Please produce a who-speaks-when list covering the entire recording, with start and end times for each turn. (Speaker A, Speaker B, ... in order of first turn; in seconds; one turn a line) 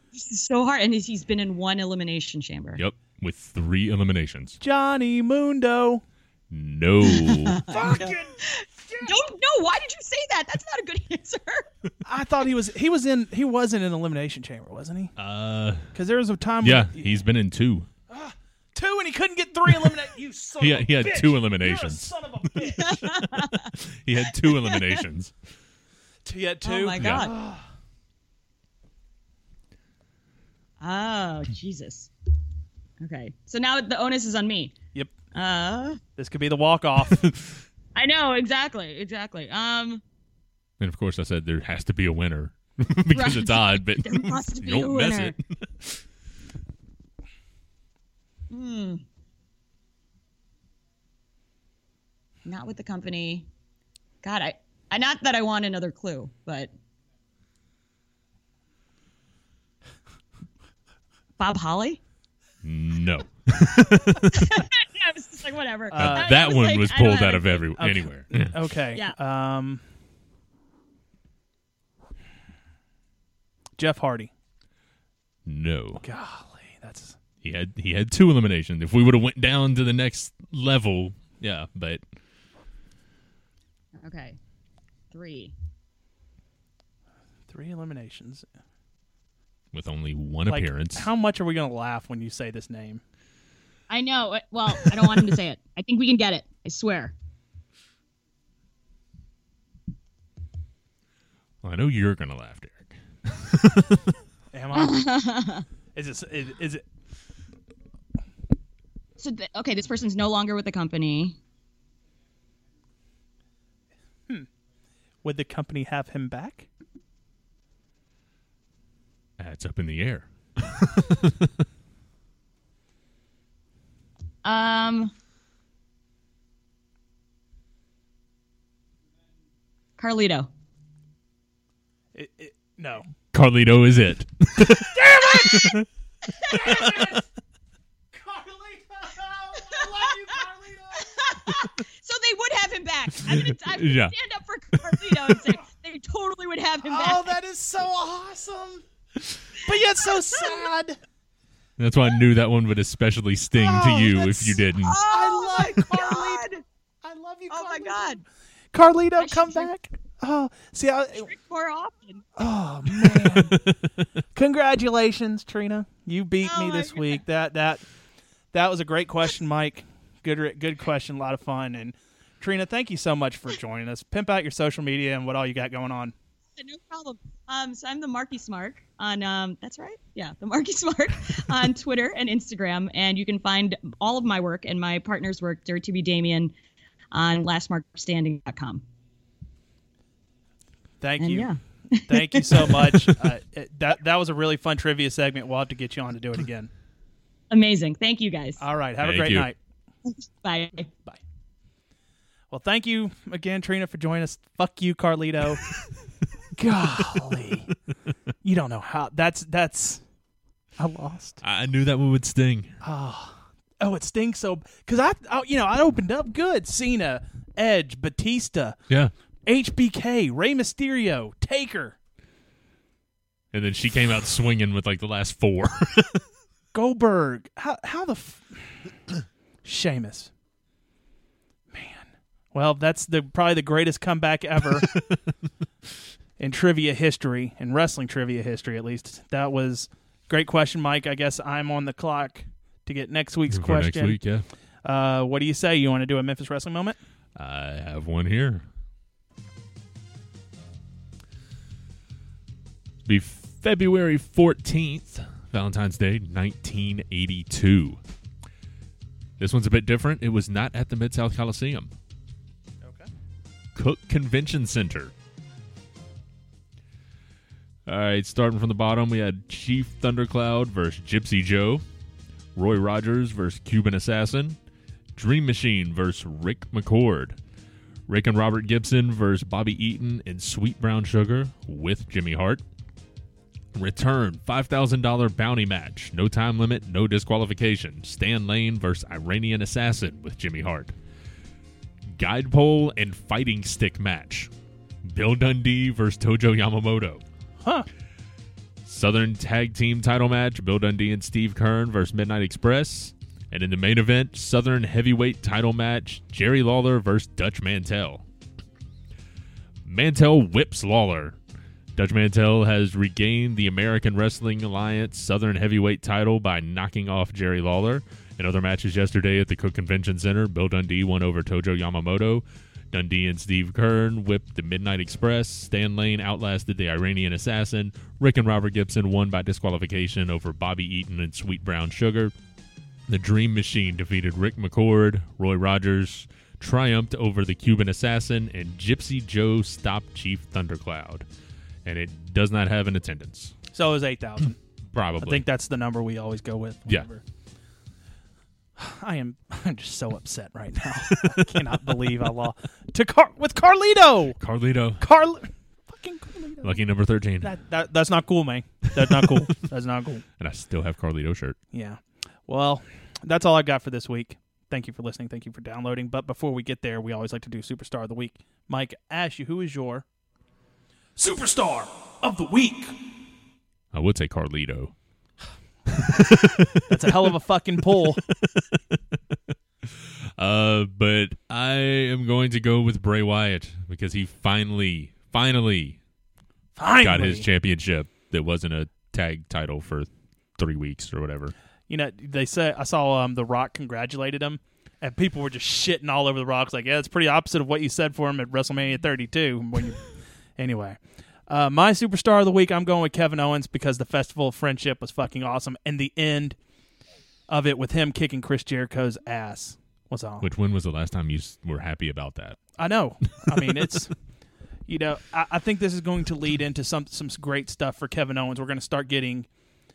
Speaker A: 0.1-2.8
Speaker B: 2.8-4.6
Speaker C: 4.6-6.0
Speaker B: 6.5-7.6
Speaker A: 7.1-11.7
Speaker C: 7.7-9.2
Speaker C: 12.1-15.2
Speaker B: 15.2-15.9
Speaker C: 15.9-17.3
Speaker B: 16.6-17.9
Speaker C: 18.1-23.1
Speaker B: 20.6-22.1
Speaker A: 22.8-25.0
Speaker B: 23.1-25.3
Speaker C: 26.2-27.6
Speaker A: 26.6-27.4
Speaker B: 26.9-27.3
Speaker A: 30.8-32.1
Speaker A: 33.0-34.8
Speaker A: 35.3-36.0
Speaker C: 36.2-37.3
Speaker A: 38.0-40.0
Speaker B: 40.8-46.0
Speaker A: 43.1-45.4
Speaker A: 48.5-49.0
Speaker A: 52.5-53.5
Speaker A: 54.2-56.7
Speaker A: 61.4-62.0
Speaker B: 62.6-64.6
Speaker A: 64.3-67.7
Speaker C: 65.9-66.5
Speaker B: 66.0-68.5
Speaker C: 67.8-69.8
Speaker A: 68.9-69.2
Speaker C: 73.8-74.3
Speaker B: 75.5-76.0
Speaker C: 76.0-77.2
Speaker B: 77.4-82.0
Speaker A: 84.0-84.4
Speaker A: 85.1-85.5
Speaker C: 87.5-88.5
Speaker B: 89.7-91.1
Speaker C: 90.5-93.0
Speaker A: 93.9-97.1
Speaker B: 101.6-104.0
Speaker C: 104.5-105.0
Speaker A: 104.7-105.7
Speaker C: 105.9-106.8
Speaker A: 109.2-111.4
Speaker C: 115.2-116.7
Speaker B: 119.4-121.5
Speaker A: 124.4-125.1
Speaker A: 130.0-130.5
Speaker C: 132.2-133.1
Speaker B: 133.3-135.8
Speaker C: 134.9-135.8
Speaker A: 136.3-136.9
Speaker C: 136.4-137.2
Speaker C: 138.1-141.3
Speaker A: 139.6-140.3
Speaker A: 141.0-147.4
Speaker B: 143.3-144.1
Speaker C: 145.3-145.6
Speaker C: 146.8-148.8
Speaker C: 149.6-151.0
Speaker A: 150.1-150.7
Speaker B: 151.8-155.0
Speaker C: 153.6-156.5
Speaker A: 154.8-156.6
Speaker C: 157.0-161.3
Speaker A: 157.5-158.2
Speaker A: 159.2-159.7
Speaker A: 161.2-162.2
Speaker C: 162.4-163.7
Speaker B: 163.0-163.8
Speaker C: 164.3-167.8
Speaker A: 166.4-167.2
Speaker C: 168.5-176.1
Speaker A: 176.6-186.5
Speaker A: 187.1-188.8
Speaker C: 191.0-191.5
Speaker A: 191.2-193.2
Speaker C: 192.1-196.7
Speaker A: 197.5-198.6
Speaker C: 198.6-199.6
Speaker B: 199.0-199.5
Speaker A: 200.1-200.9
Speaker C: 202.5-205.7
Speaker C: 206.6-207.7
Speaker C: 208.4-210.0
Speaker C: 210.8-211.4
Speaker B: 211.4-212.8
Speaker C: 212.8-218.8
Speaker C: 219.5-222.0
Speaker B: 223.5-226.2
Speaker C: 226.7-228.9
Speaker C: 229.6-230.3
Speaker C: 231.7-234.9
Speaker C: 236.4-244.2
Speaker B: 243.5-244.5
Speaker C: 244.8-247.0
Speaker B: 247.3-248.7
Speaker B: 253.1-258.0
Speaker B: 259.4-261.9
Speaker C: 262.8-263.1
Speaker B: 263.8-265.1
Speaker B: 267.9-271.9
Speaker B: 272.6-274.6
Speaker B: 275.1-277.4
Speaker B: 278.1-282.6
Speaker B: 283.7-290.9
Speaker B: 292.1-294.5
Speaker B: 295.0-297.2
Speaker C: 297.6-297.9
Speaker B: 298.9-308.2
Speaker B: 309.9-311.4
Speaker B: 312.0-332.3
Speaker B: 333.1-341.3
Speaker B: 341.9-343.6
Speaker C: 343.7-344.6
Speaker B: 344.9-345.4
Speaker C: 345.2-347.2
Speaker C: 348.8-354.4
Speaker B: 351.1-351.6
Speaker B: 354.4-355.0
Speaker C: 355.0-356.8
Speaker B: 356.6-357.6
Speaker C: 357.4-360.2
Speaker B: 359.0-359.5
Speaker B: 360.4-361.6
Speaker C: 361.7-370.1
Speaker C: 371.2-373.0
Speaker B: 373.9-374.9
Speaker B: 375.9-377.1
Speaker C: 376.9-378.2
Speaker B: 378.0-378.6
Speaker B: 379.8-386.0
Speaker C: 386.8-387.5
Speaker B: 386.9-391.5
Speaker C: 391.9-406.6
Speaker C: 407.5-410.5
Speaker B: 410.4-412.6
Speaker C: 412.8-414.1
Speaker B: 413.5-413.7
Speaker C: 414.9-419.5